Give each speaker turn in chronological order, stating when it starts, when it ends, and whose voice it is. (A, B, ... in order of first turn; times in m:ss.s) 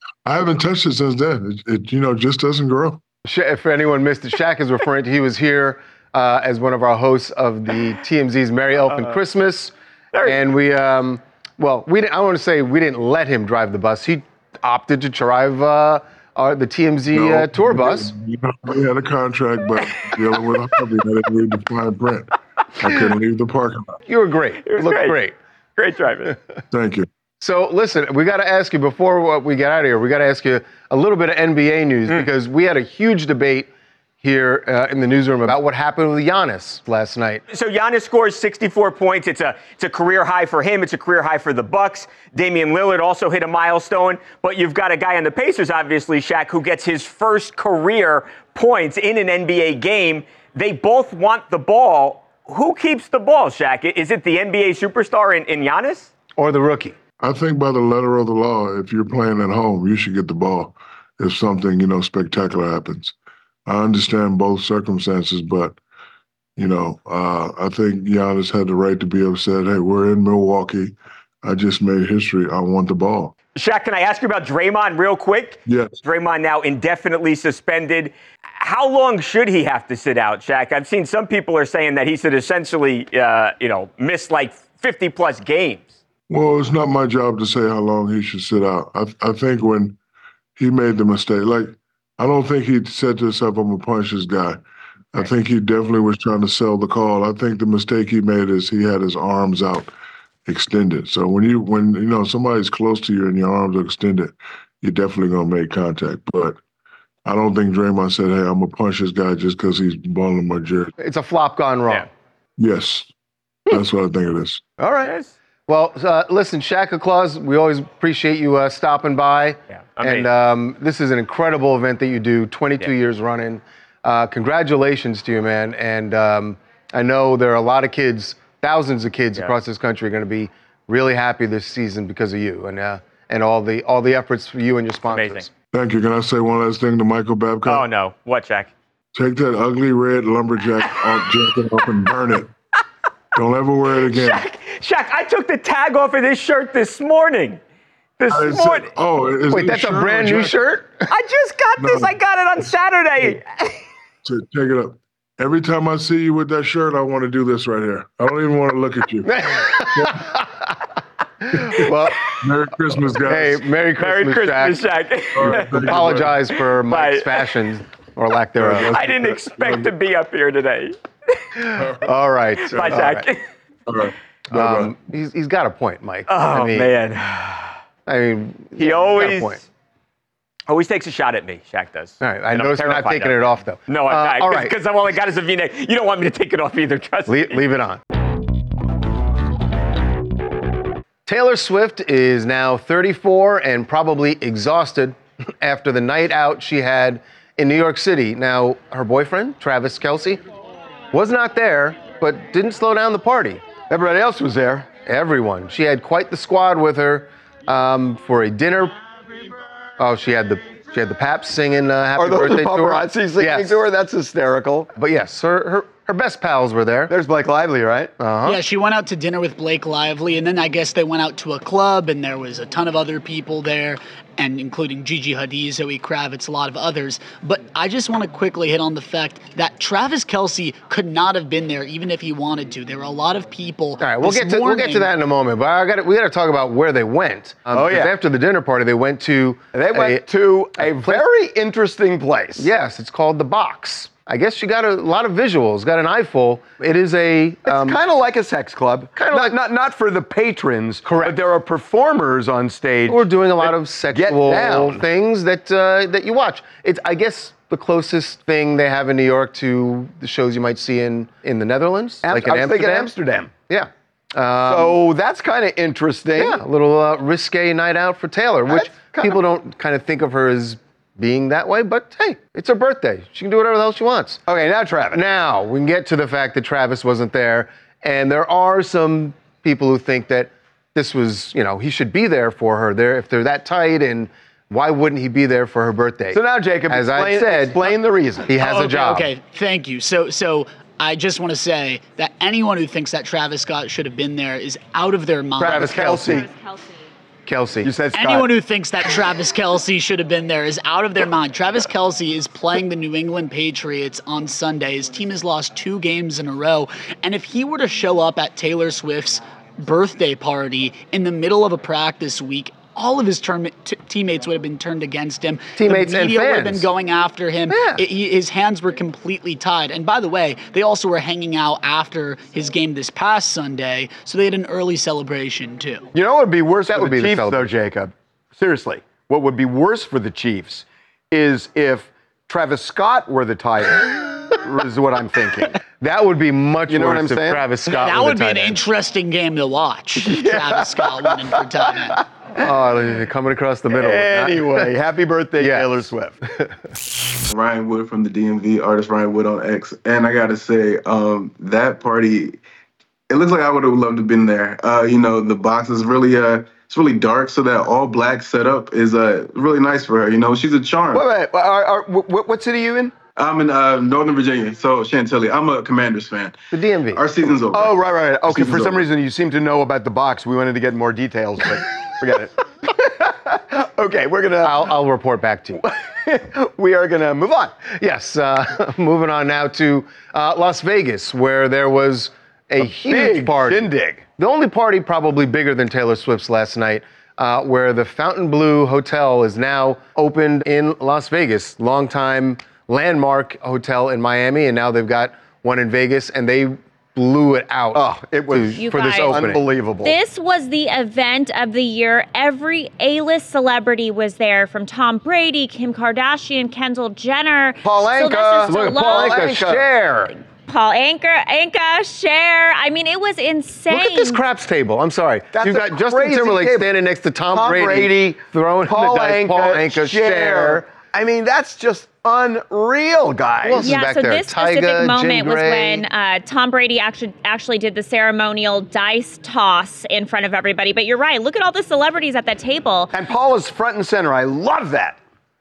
0:00.2-0:03.0 A
0:03.2-0:09.7 B
0:08.8-0:09.2 C
0:10.1-0:10.4 C
0:10.2-0:18.1 B
0:17.1-0:24.0 A
0:19.8-0:20.1 C
0:24.1-0:25.3 B
0:24.6-0:25.2 C
0:25.8-0:26.4 C
0:26.7-0:27.1 A
0:27.4-0:33.7 B
0:34.2-0:37.4 B
0:37.5-0:56.1 C
0:56.4-0:57.0 B
0:57.2-1:03.1 A
1:03.6-1:05.8 A
1:06.6-1:13.3 A
1:13.5-1:25.9 C
1:15.6-1:16.0 A
1:26.3-1:30.0 A
1:30.6-1:34.6 A
1:35.1-1:39.9 A
1:40.4-1:46.6 A
1:47.2-1:50.9 A
1:51.0-1:52.1 B
1:52.6-1:53.1 A
1:53.7-1:54.6 A
1:54.8-1:55.1 B
1:55.0-1:55.3 C
1:55.7-2:15.5 B
1:59.7-2:00.3 C
2:15.1-2:15.5 C
2:15.7-2:17.8 A
2:17.6-2:18.7 C
2:19.1-2:22.5 A
2:23.3-2:24.4 A
2:24.0-2:27.6 C
2:28.2-2:28.9 C
2:28.3-2:30.6 A
2:29.5-2:31.0 B
2:31.1-2:33.7 C
2:31.8-2:32.1 A
2:34.2-2:40.2 A
2:39.3-2:40.4 B
2:41.5-2:42.2 B
2:41.6-2:43.6 A
2:43.2-2:44.8 B
2:44.0-2:46.2 C
2:45.3-2:46.4 A
2:45.5-2:49.0 B
2:46.9-2:47.5 C
2:48.6-2:49.9 A
2:48.9-2:51.0 C
2:51.7-2:53.3 B
2:51.8-2:52.0 A
2:52.7-2:53.4 C
2:52.7-2:53.0 A
2:53.9-2:54.9 A
2:54.5-2:56.9 B
2:56.3-2:57.8 C
2:58.1-2:59.6 B
2:58.8-2:59.6 C
3:00.7-3:03.4 C
3:02.2-3:04.7 B
3:03.9-3:07.6 C
3:07.3-3:08.0 B
3:11.2-3:20.4 B
3:21.1-3:23.6 B
3:23.9-3:24.9 D
3:25.0-3:28.9 B
3:30.0-3:33.8 B
3:32.2-3:34.9 D
3:35.0-3:37.1 B
3:37.1-3:38.1 D
3:38.2-3:38.6 B
3:38.4-3:55.1 E
3:54.0-4:00.2 B
3:57.7-3:58.1 D
3:59.7-4:02.7 D
4:00.8-4:01.2 B
4:02.6-4:08.0 B
4:07.6-4:15.0 D
4:09.2-4:09.6 B
4:11.0-4:11.4 B
4:13.1-4:23.1 B
4:22.2-4:23.5 D
4:23.7-4:25.0 B
4:24.6-4:26.6 D
4:26.4-4:34.4 B
4:28.7-4:29.4 D
4:34.4-4:35.2 D
4:35.1-4:47.9 B
4:46.3-4:48.5 D
4:48.5-4:49.3 B
4:48.5-4:56.3 E
4:55.6-4:56.4 B
4:55.6-4:56.5 D
4:57.4-4:57.9 B
4:57.8-4:58.5 D
4:58.1-5:26.1 E
5:15.8-5:16.9 B
5:17.7-5:18.0 B
5:26.1-5:35.7 D
5:26.9-5:27.7 B
5:36.0-5:38.8 B
5:36.9-5:37.7 D
5:37.8-5:42.2 E
5:40.2-5:42.0 D
5:42.6-5:44.9 B
5:43.9-5:46.4 D
5:45.6-5:46.0 B
5:47.5-5:52.6 F
5:53.3-6:01.2 F
6:01.1-6:03.1 D
6:03.4-6:06.6 F
6:06.7-6:07.2 B
6:07.1-6:08.0 F
6:07.7-6:14.9 D
6:08.5-6:09.0 F
6:14.6-6:15.8 B
6:15.8-6:17.7 D
6:17.9-6:39.6 B
6:22.8-6:24.2 D
6:37.9-6:40.1 D
6:38.8-6:39.4 G
6:40.0-6:49.6 G
6:47.8-6:49.9 D
6:48.6-6:50.3 B
6:50.7-6:54.4 G
6:53.9-7:00.8 B
6:55.5-6:56.9 D
6:57.5-7:03.9 D
7:03.6-7:06.0 B
7:03.8-7:13.1 G
7:13.1-7:15.2 D